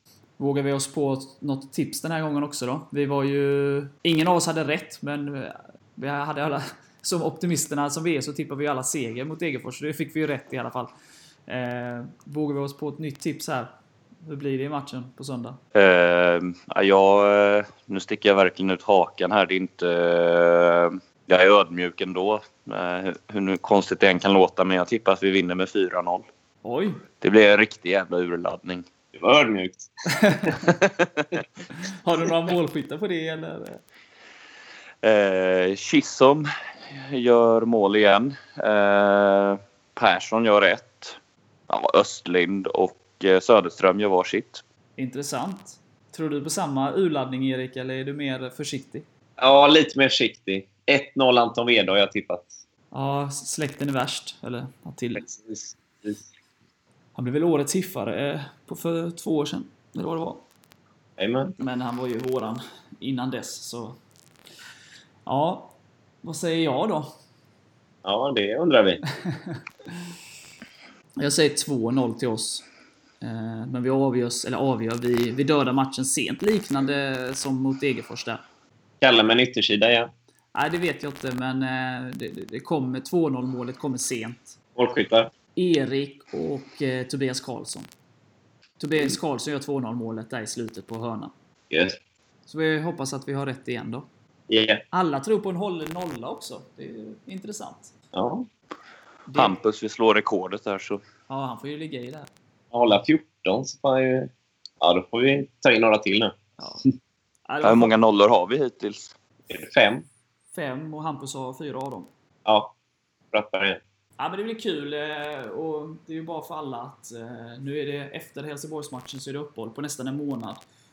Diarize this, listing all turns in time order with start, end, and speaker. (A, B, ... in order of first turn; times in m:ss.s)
0:00.4-0:10.9 A
0:11.5-0:13.7 A
0:14.2-0:15.6 A
0:15.7-0:26.3 B
0:26.6-0:27.0 A
0:27.2-0:28.8 B
0:29.1-0:30.5 C
0:30.1-0:30.5 A
0:30.8-0:31.0 B
0:31.7-0:33.8 A
0:35.0-0:41.2 B
0:41.7-0:44.6 B
0:45.0-0:49.0 A
0:49.4-0:52.5 C
0:52.9-0:55.2 A
0:55.2-0:56.2 C
0:57.1-1:00.4 A
1:01.2-1:01.6 C
1:01.6-1:04.0 A
1:05.2-1:07.1 A
1:08.0-1:09.0 C
1:09.2-1:09.6 A
1:11.2-1:12.6 A
1:13.2-1:18.4 A
1:19.0-1:20.1 C
1:20.5-1:24.6 A
1:24.8-1:25.3 C
1:25.6-1:27.9 A
1:28.8-1:31.3 A
1:31.7-1:32.0 C
1:32.5-1:34.0 A
1:34.5-1:34.8 C
1:34.9-1:37.9 A
1:38.1-1:38.5 C
1:39.3-1:39.6 A
1:39.3-1:41.0 B
1:41.3-1:42.3 A
1:42.7-1:46.4 C
1:46.6-1:46.8 A
1:47.5-1:47.9 A
1:47.6-1:49.1 B
1:49.5-1:50.0 C
1:50.5-1:52.1 A
1:52.4-1:52.7 C
1:53.3-1:53.8 C
1:54.2-2:00.6 A